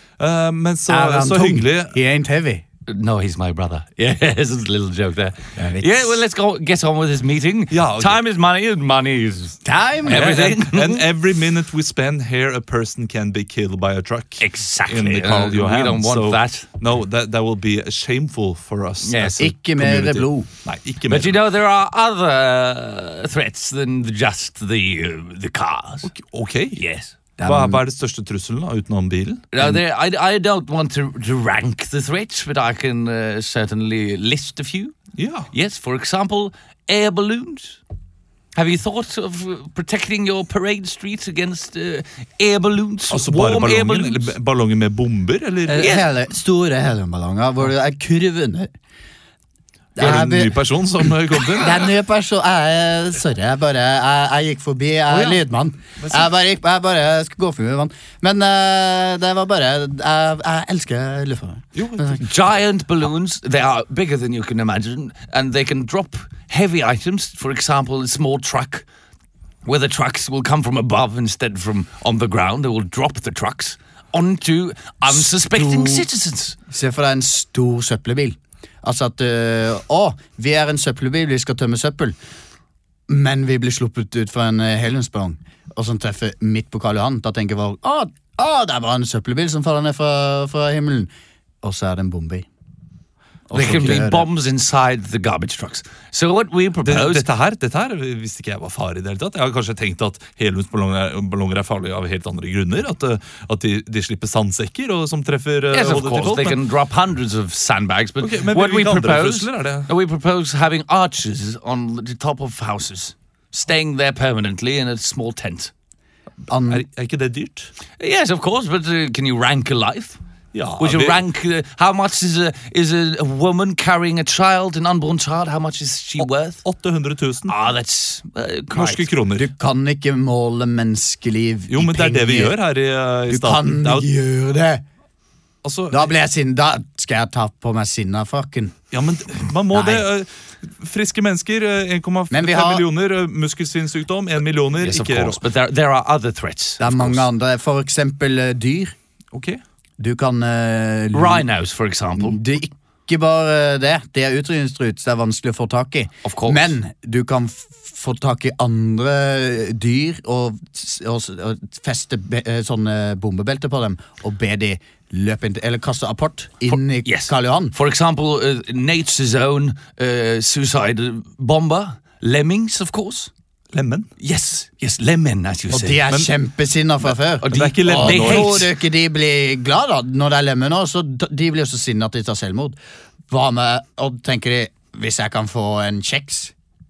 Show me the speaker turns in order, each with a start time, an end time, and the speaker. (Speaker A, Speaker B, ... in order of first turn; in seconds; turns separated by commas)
Speaker A: 0.2-1.9, Speaker B: 0.9-2.6, Speaker C: 2.9-11.1, Speaker B: 5.5-6.2, Speaker A: 7.7-8.2, Speaker B: 9.6-10.2, Speaker A: 10.0-21.4, Speaker C: 14.4-16.6, Speaker C: 19.0-19.4, Speaker B: 19.4-20.5, Speaker C: 21.1-26.1, Speaker A: 26.0-26.8, Speaker C: 26.8-27.1, Speaker B: 27.4-27.8, Speaker A: 27.4-29.4, Speaker C: 29.5-35.0, Speaker A: 35.2-35.5, Speaker C: 35.5-37.8, Speaker C: 38.5-44.3, Speaker A: 43.1-46.0, Speaker B: 45.7-48.7, Speaker C: 45.8-46.1, Speaker B: 49.9-50.6, Speaker A: 50.0-51.9, Speaker B: 51.6-62.2, Speaker A: 55.1-55.4, Speaker A: 56.0-56.3, Speaker A: 61.7-62.2, Speaker C: 62.2-68.8, Speaker C: 69.6-76.5, Speaker B: 75.1-76.1, Speaker B: 76.7-82.2, Speaker B: 83.1-91.1, Speaker B: 91.6-92.5, Speaker B: 93.5-94.2, Speaker C: 93.5-97.2, Speaker A: 96.8-106.6, Speaker C: 105.7-115.7, Speaker A: 108.2-109.9, Speaker B: 116.5-116.8, Speaker A: 116.7-117.7, Speaker C: 118.0-120.2, Speaker A: 120.5-121.2, Speaker C: 120.8-126.6, Speaker A: 126.2-127.6, Speaker C: 127.5-129.1, Speaker A: 128.7-129.5, Speaker B: 129.3-132.5, Speaker A: 131.7-134.1, Speaker B: 133.3-134.8, Speaker A: 135.6-136.1, Speaker B: 135.9-138.7, Speaker A: 138.9-145.4, Speaker B: 139.7-140.1, Speaker B: 142.3-142.8, Speaker C: 144.8-147.3, Speaker B: 146.8-148.9, Speaker A: 149.3-149.6, Speaker B: 150.0-151.4, Speaker C: 151.1-152.4, Speaker B: 152.2-167.7, Speaker C: 156.2-156.7, Speaker C: 167.0-173.3, Speaker A: 173.7-174.1, Speaker C: 174.2-176.0, Speaker B: 175.7-182.8, Speaker C: 177.4-178.7, Speaker A: 177.4-178.7, Speaker B: 183.3-186.5